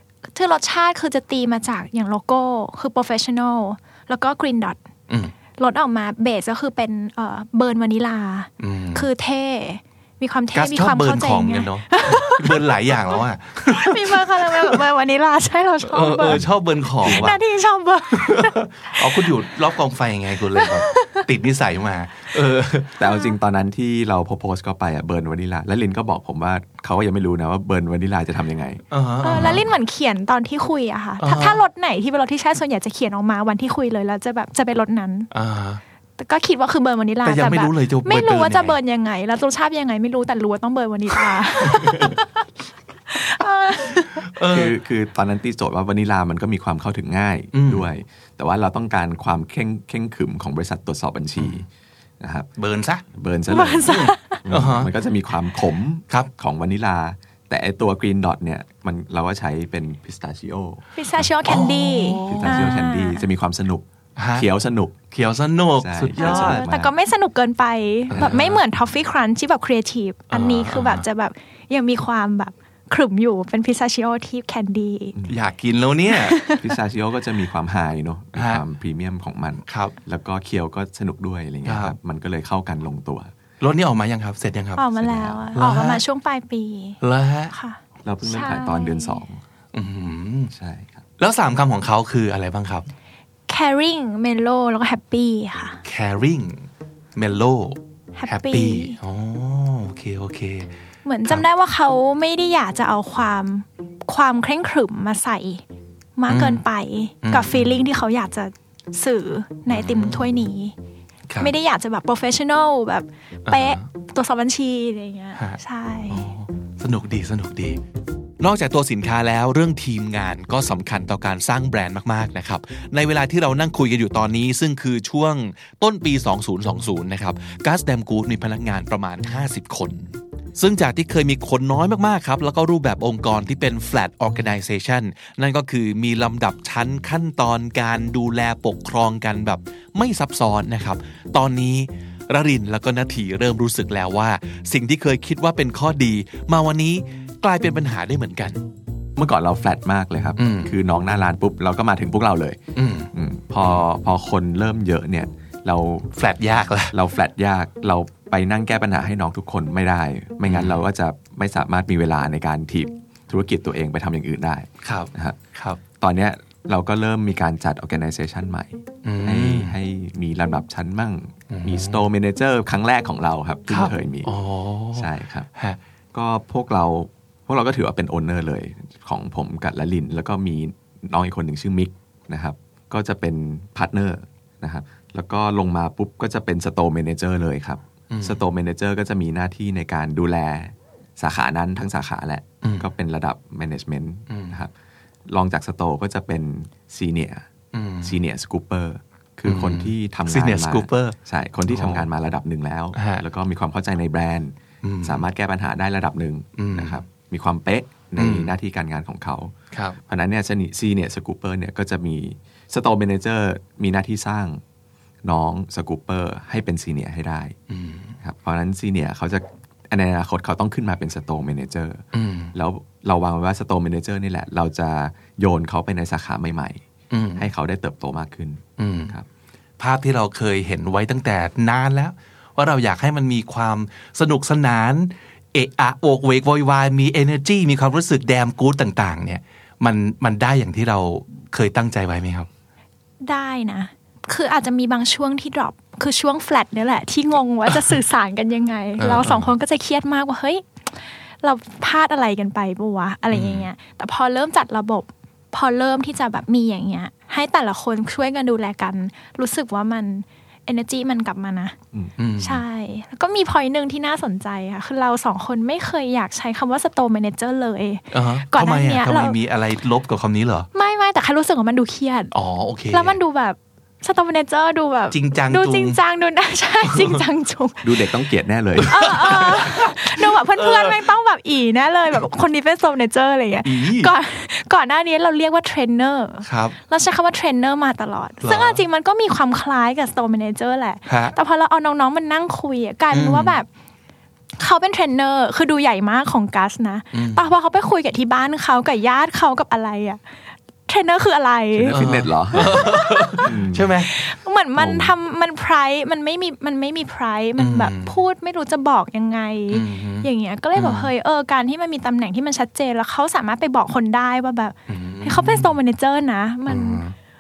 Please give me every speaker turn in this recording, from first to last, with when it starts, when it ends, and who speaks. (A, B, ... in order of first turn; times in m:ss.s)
0:00.3-0:04.8 A
0:05.6-0:16.4 A
0:08.6-0:09.1 B
0:10.5-0:14.8 B
0:15.8-0:17.4 B
0:17.0-0:19.3 A
0:18.2-0:23.0 B
0:20.6-0:21.3 A
0:23.0-0:29.6 C
0:23.0-0:23.3 A
0:28.9-0:29.6 B
0:29.2-0:35.3 A
0:31.2-0:31.6 B
0:35.3-0:35.8 B
0:36.2-0:42.4 A
0:37.2-0:38.8 B
0:41.7-0:42.1 B
0:43.1-0:44.3 A
0:44.2-0:44.8 B
0:44.5-0:51.7 C
0:47.5-0:47.9 B
0:51.4-0:51.6 B
0:52.2-0:52.5 C
0:52.6-0:53.0 B
0:53.1-1:00.8 C
0:53.5-0:54.4 A
0:53.9-0:54.9 B
1:01.0-1:03.3 A
1:01.4-1:02.7 B
1:02.3-1:05.0 C
1:04.2-1:04.5 B
1:05.1-1:06.7 B
1:05.8-1:06.9 C
1:06.2-1:15.2 A
1:08.1-1:08.6 B
1:08.1-1:08.4 C
1:10.3-1:11.0 B
1:15.3-1:16.4 B
1:16.1-1:16.6 A
1:16.6-1:23.3 C
1:18.4-1:18.6 B
1:19.7-1:20.0 B
1:21.7-1:22.0 B
1:23.6-1:24.8 B
1:24.8-1:27.0 A
1:25.0-1:25.5 C
1:25.6-1:26.0 B
1:27.0-1:27.5 B
1:27.5-1:29.2 A
1:28.0-1:29.4 C
1:29.7-1:30.5 B
1:30.5-1:31.0 C
1:31.2-1:32.9 B
1:33.5-1:35.8 A
1:35.8-1:40.7 B
1:38.2-1:39.0 A
1:41.0-1:45.6 A
1:46.2-1:50.7 A
1:46.3-1:46.6 B
1:47.2-1:47.8 B
1:49.7-1:50.4 B
1:51.4-1:56.3 A
1:53.5-1:53.8 B
1:55.4-1:57.8 B
1:58.4-2:28.6 B
2:29.2-2:32.6 C
2:30.4-2:30.7 B
2:32.8-2:33.1 B
2:33.1-2:36.1 C
2:36.2-2:36.9 B
2:36.9-2:45.4 C
2:40.5-2:40.8 B
2:44.8-2:45.8 B
2:46.0-2:54.3 C
2:49.0-2:49.8 B
2:51.5-2:52.0 B
2:53.7-2:55.8 B
2:55.0-2:55.5 C
2:56.1-3:14.7 C
3:08.1-3:08.4 B
3:12.6-3:12.9 B
3:14.3-3:14.6 B
3:15.3-3:17.5 C
3:17.7-3:18.2 B
3:18.0-3:29.5 C
3:19.5-3:21.2 B
3:21.7-3:22.1 B
3:23.0-3:23.2 B
3:24.8-3:25.3 B
3:26.6-3:27.0 B
3:28.2-3:28.5 B
3:29.7-3:30.0 B
3:30.1-3:34.6 C
3:35.2-3:37.6 C
3:37.7-3:38.2 B
3:38.2-3:46.8 C
3:42.1-3:42.5 B
3:47.1-3:47.5 B
3:47.4-3:49.3 C
3:48.8-3:49.1 B
3:49.8-4:02.5 B
4:03.2-4:10.6 A
4:09.0-4:09.5 B
4:11.4-4:21.8 A
4:13.3-4:13.7 B
4:22.2-4:22.6 B
4:22.4-4:29.4 A
4:28.1-4:30.7 B
4:30.7-4:32.3 A
4:32.3-4:33.2 B
4:32.9-4:37.9 A
4:35.1-4:36.0 B
4:36.8-4:37.2 B
4:37.8-4:39.1 C
4:38.8-4:41.1 B
4:38.8-4:53.7 A
4:43.6-4:44.1 B
4:46.4-4:46.8 B
4:48.4-4:48.8 B
4:51.1-4:51.4 B
4:53.1-4:53.6 B
4:54.6-5:00.2 A
4:57.1-4:57.4 B
5:00.9-5:02.0 A
5:01.8-5:02.9 C
5:01.9-5:04.1 B
5:02.5-5:03.4 A
5:03.4-5:04.0 C
5:04.1-5:17.0 A
5:04.8-5:05.1 C
5:07.6-5:08.2 B
5:09.7-5:11.1 B
5:14.9-5:15.8 B
5:16.7-5:17.2 B